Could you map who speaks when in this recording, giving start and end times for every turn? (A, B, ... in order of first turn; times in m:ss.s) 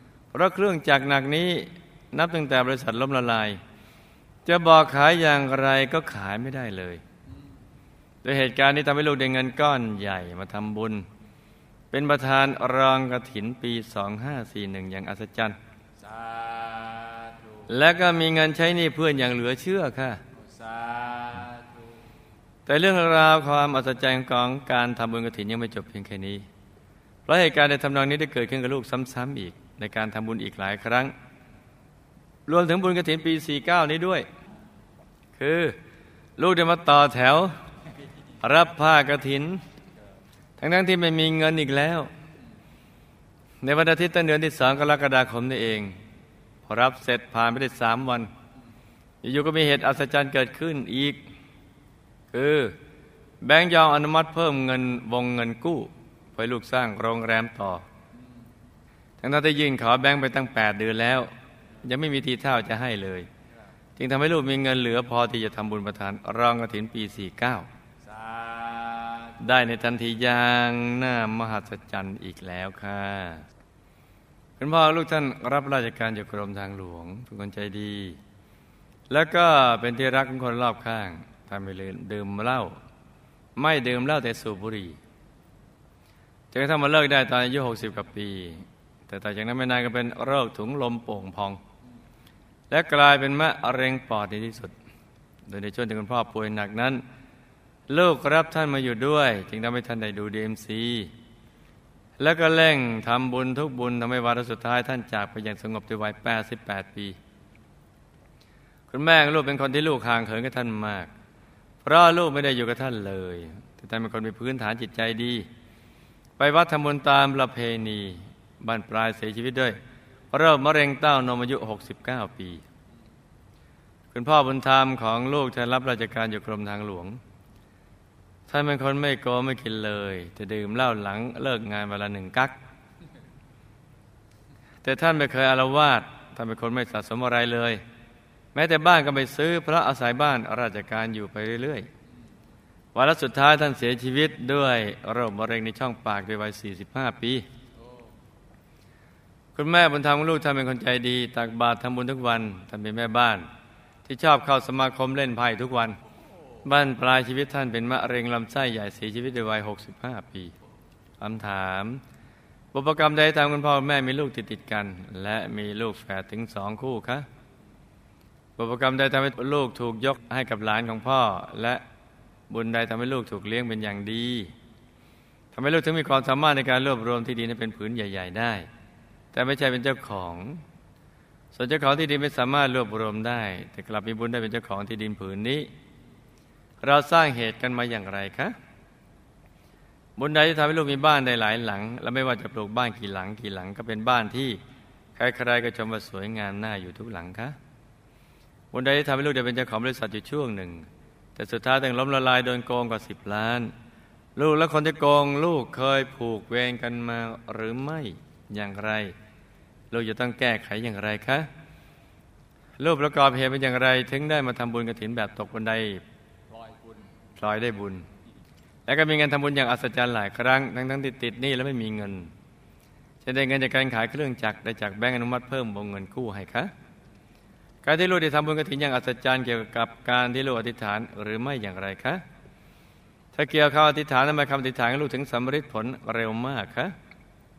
0:00.3-0:03.6 A
0:04.4-0:07.0 A
0:08.2-0:11.1 A
0:11.9-0:15.6 A
0:16.0-0:17.7 B
0:17.7-0:20.2 A
0:20.3-0:22.0 B
0:22.7-0:26.4 A
0:27.2-0:31.1 A
0:32.5-0:34.3 A
0:35.4-0:35.8 A
0:36.4-0:37.6 A
0:38.4-0:39.6 A
0:40.6-0:42.1 A
0:43.6-0:46.0 A
0:46.6-0:48.3 A
0:49.2-0:51.2 A
0:52.3-0:52.7 A
0:53.4-0:57.8 A
0:59.2-1:01.3 A
1:01.8-1:03.3 A
1:04.0-1:07.7 A
1:08.0-1:09.5 B
1:09.4-1:13.4 A
1:14.6-1:18.2 A
1:19.1-1:22.8 A
1:23.6-1:25.0 A
1:26.5-1:31.6 A
1:32.7-1:34.7 A
1:35.4-1:37.0 A
1:37.9-1:41.1 A
1:42.2-1:47.2 A
1:48.9-1:51.1 A
1:51.8-1:55.5 A
1:56.4-1:59.8 A
2:00.3-2:02.6 A
2:04.1-2:07.2 A
2:08.5-2:12.6 A
2:14.8-2:17.8 A
2:18.5-2:21.9 A
2:22.9-2:27.4 A
2:27.7-2:28.1 B
2:29.5-2:33.5 A
2:34.0-2:36.0 A
2:36.2-2:36.6 B
2:36.6-2:40.5 A
2:41.2-2:42.0 A
2:42.7-2:47.2 A
2:48.6-2:51.8 A
2:52.5-2:54.5 A
2:55.5-2:58.7 A
2:59.3-3:00.6 A
3:01.5-3:05.7 A
3:06.8-3:08.6 A
3:10.2-3:14.6 A
3:15.2-3:17.6 A
3:18.7-3:23.7 A
3:24.4-3:29.1 A
3:29.9-3:31.5 A
3:32.8-3:36.0 A
3:36.5-3:37.1 B
3:37.4-3:38.0 A
3:38.8-3:42.3 A
3:43.2-3:46.7 A
3:47.8-3:52.2 A
3:53.3-3:56.9 A